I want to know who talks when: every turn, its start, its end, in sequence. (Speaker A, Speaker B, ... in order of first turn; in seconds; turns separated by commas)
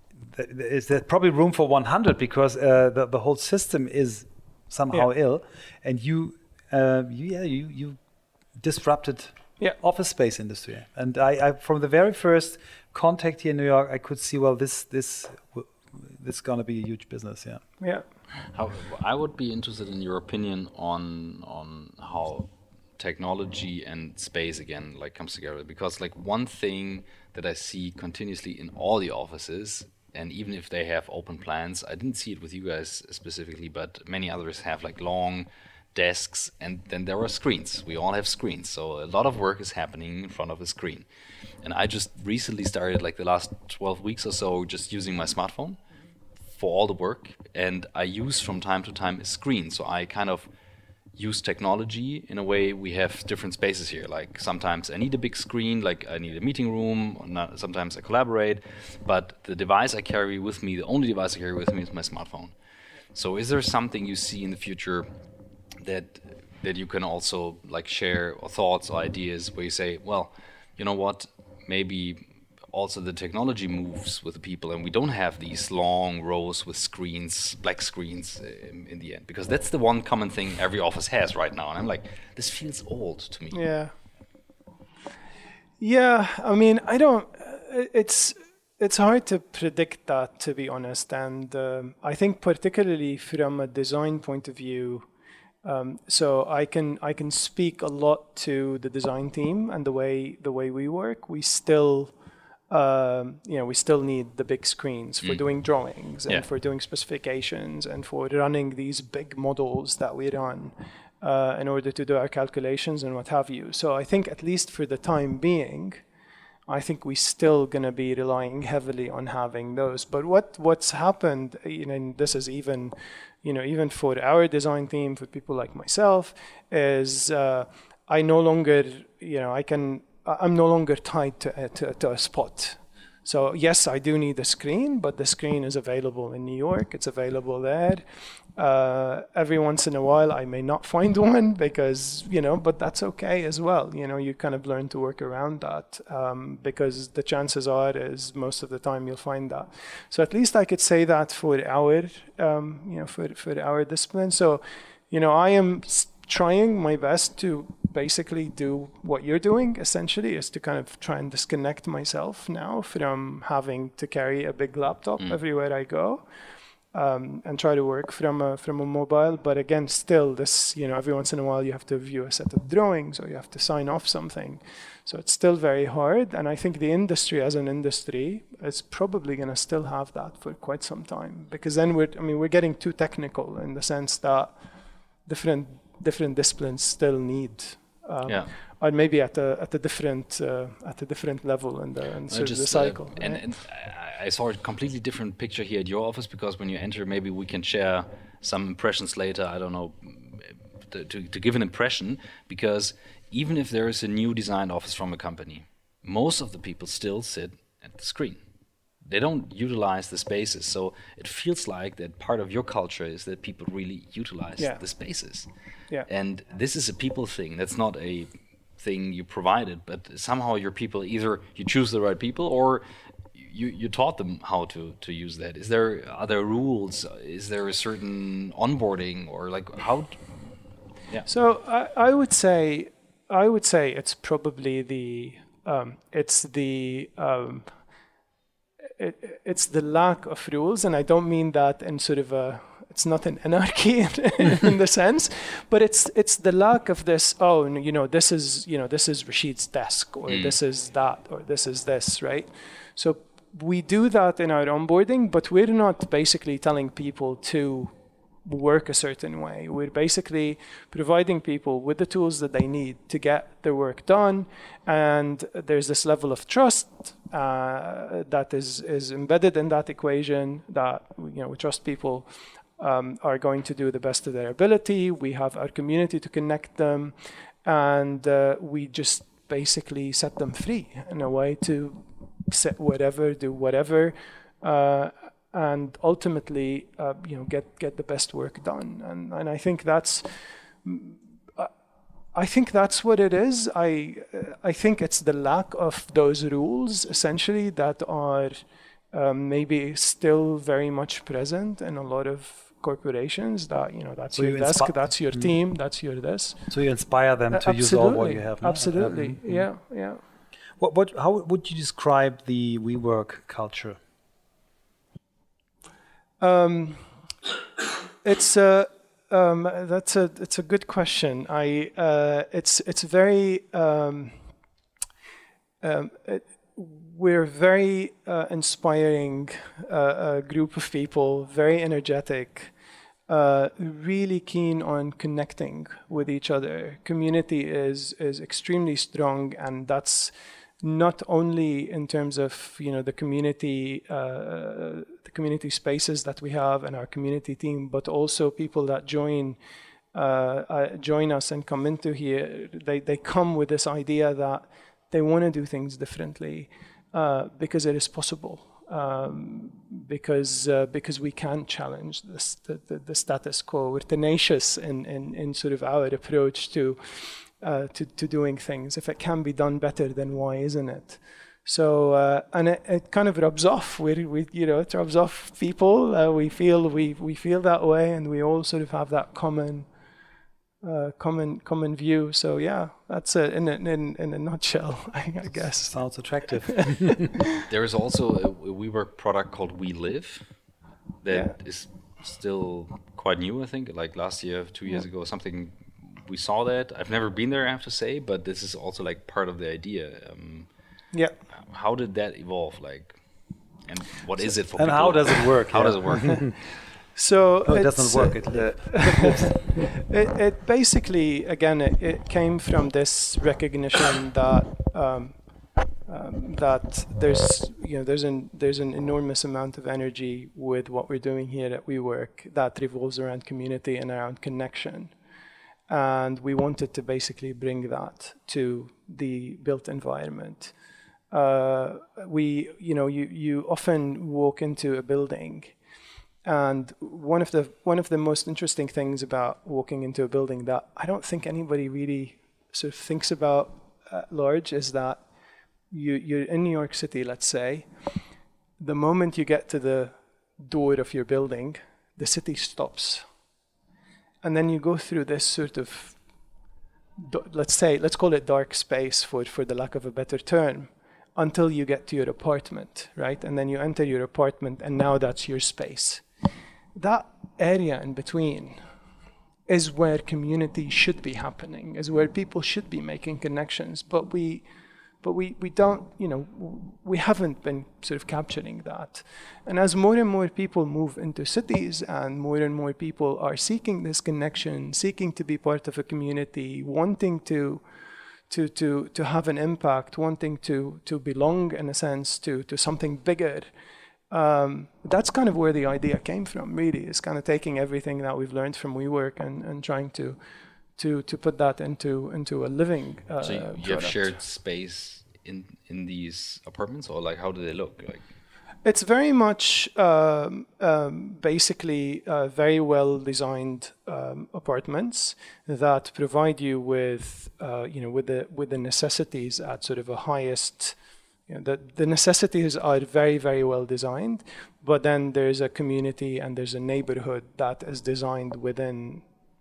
Speaker A: 0.2-8.0, Speaker A: 8.6-17.6, Speaker B: 18.5-41.0, Speaker B: 41.6-45.8, Speaker B: 46.5-50.5, Speaker B: 51.1-62.5, Speaker B: 63.1-65.1, Speaker B: 65.8-83.6, Speaker C: 83.5-83.9, Speaker C: 85.8-95.0, Speaker C: 95.6-102.1, Speaker C: 102.7-116.0, Speaker C: 116.7-138.0, Speaker C: 138.6-166.2, Speaker C: 166.9-184.6, Speaker C: 185.2-193.4, Speaker B: 188.2-188.5, Speaker B: 192.3-208.4, Speaker B: 209.0-215.5, Speaker B: 216.1-230.4, Speaker C: 231.2-237.8, Speaker C: 239.0-257.9, Speaker B: 250.3-250.5, Speaker C: 258.4-291.7, Speaker C: 292.3-306.6, Speaker A: 304.3-305.6, Speaker A: 306.7-309.6, Speaker C: 307.5-310.2, Speaker A: 310.8-314.0, Speaker C: 316.4-317.0, Speaker C: 318.2-324.3, Speaker C: 325.8-332.7, Speaker C: 333.3-349.6, Speaker C: 350.1-379.9, Speaker C: 380.8-387.6, Speaker A: 385.9-387.3, Speaker B: 387.7-390.5, Speaker B: 391.2-400.7, Speaker B: 401.5-403.2, Speaker B: 403.9-406.6, Speaker A: 404.8-406.5, Speaker C: 407.1-415.3, Speaker A: 407.6-409.9, Speaker C: 416.1-425.1, Speaker C: 425.9-430.7, Speaker C: 431.3-435.7, Speaker C: 436.4-445.2, Speaker C: 445.9-447.9, Speaker C: 448.8-453.2, Speaker C: 454.4-456.2, Speaker C: 457.2-466.2, Speaker C: 466.9-468.8, Speaker C: 469.7-474.6, Speaker C: 475.2-487.8, Speaker C: 488.5-493.7, Speaker C: 494.3-500.4, Speaker C: 501.0-504.3, Speaker B: 503.4-508.2, Speaker C: 508.8-521.0, Speaker C: 521.5-529.2